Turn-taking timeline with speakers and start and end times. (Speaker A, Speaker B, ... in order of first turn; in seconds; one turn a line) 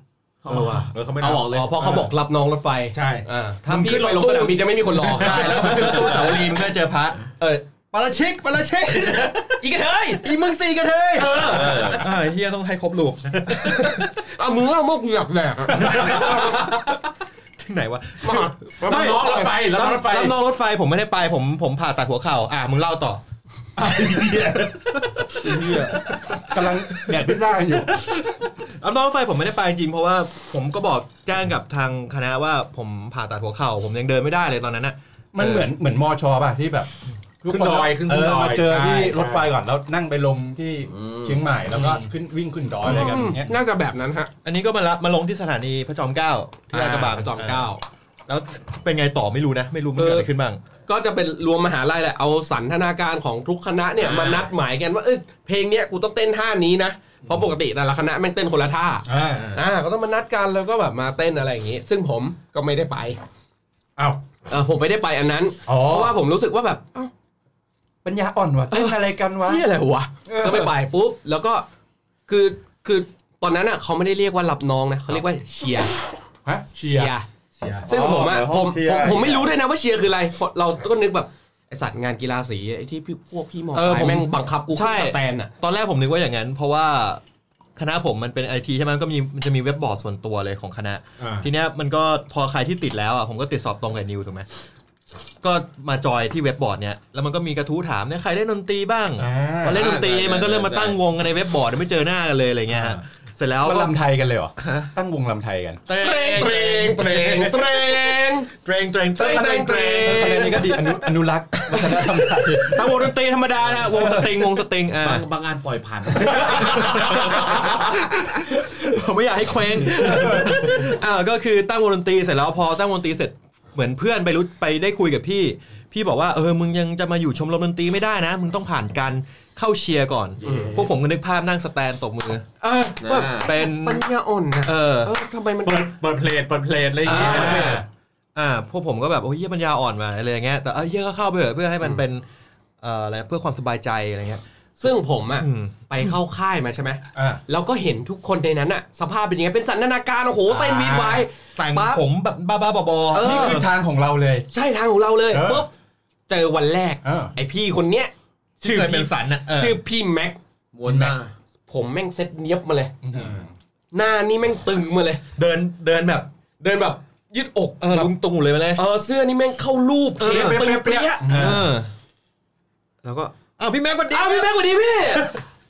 Speaker A: 0.5-6.5
Speaker B: 0.5-0.8
Speaker C: 0.9-1.9
Speaker D: 1.2-2.1
Speaker C: 2.9-3.3
Speaker B: 3.7-7.2
Speaker A: 7.4-7.6
Speaker B: 7.9-9.6
Speaker A: 9.2-10.3
Speaker B: 10.2-14.1
Speaker A: 11.2-12.1
Speaker D: 11.4-12.1
Speaker A: 13.9-17.0
Speaker B: 15.7-16.7
Speaker B: 17.6-23.2
Speaker A: 18.2-19.5
Speaker C: 18.9-20.4
Speaker C: 23.8-24.9
Speaker B: 25.0-26.0
Speaker E: 25.4-26.0
Speaker E: 26.5-28.1
Speaker B: 26.6-27.2
Speaker B: 27.9-35.7
Speaker E: 35.3-43.5
Speaker C: 37.5-39.5
Speaker D: 40.9-41.4
Speaker A: 42.8-44.3
Speaker B: 44.4-47.7
Speaker A: 46.7-47.8
Speaker B: 48.3-50.6
Speaker A: 50.0-50.3
Speaker A: 50.9-63.2
Speaker B: 54.0-54.5
Speaker D: 54.1-54.4
Speaker E: 59.1-59.6
Speaker A: 64.5-67.1
Speaker E: 65.7-66.2
Speaker E: 68.0-69.7
Speaker A: 68.7-71.7
Speaker E: 70.3-70.7
Speaker A: 72.3-75.9
Speaker E: 76.5-77.1
Speaker A: 76.8-77.3
Speaker C: 77.6-77.9
Speaker E: 77.8-79.5
Speaker A: 77.9-85.5
Speaker B: 83.7-87.2
Speaker B: 87.8-94.5
Speaker C: 91.2-91.5
Speaker B: 95.4-103.9
Speaker E: 99.2-99.8
Speaker D: 99.7-101.0
Speaker E: 103.6-105.8
Speaker B: 104.6-104.9
Speaker B: 105.9-110.7
Speaker A: 105.9-108.5
Speaker A: 109.2-110.8
Speaker E: 110.0-113.0
Speaker B: 112.5-115.2
Speaker E: 114.0-114.3
Speaker D: 115.0-117.9
Speaker B: 116.3-132.5
Speaker E: 120.0-120.8
Speaker A: 130.4-130.8
Speaker A: 132.6-135.9
Speaker D: 133.0-133.5
Speaker B: 133.4-134.1
Speaker B: 134.6-135.1
Speaker C: 135.6-137.8
Speaker B: 137.1-137.8
Speaker A: 137.1-137.8
Speaker E: 137.1-137.9
Speaker B: 138.3-142.2
Speaker B: 142.8-144.4
Speaker A: 144.8-152.0
Speaker B: 145.4-146.1
Speaker E: 147.2-147.4
Speaker E: 150.5-151.2
Speaker B: 151.6-153.7
Speaker A: 153.1-153.7
Speaker E: 153.2-154.5
Speaker A: 154.5-155.7
Speaker E: 155.3-155.7
Speaker A: 156.3-160.4
Speaker E: 157.0-157.3
Speaker B: 158.6-159.8
Speaker D: 160.7-161.3
Speaker E: 160.8-161.2
Speaker A: 161.7-163.0
Speaker E: 163.0-163.5
Speaker A: 163.9-165.2
Speaker B: 165.4-166.3
Speaker A: 166.6-168.1
Speaker B: 167.8-168.8
Speaker A: 168.8-171.6
Speaker B: 170.2-170.7
Speaker E: 170.2-171.7
Speaker B: 171.3-171.9
Speaker A: 173.0-173.3
Speaker B: 173.6-175.3
Speaker A: 174.1-175.4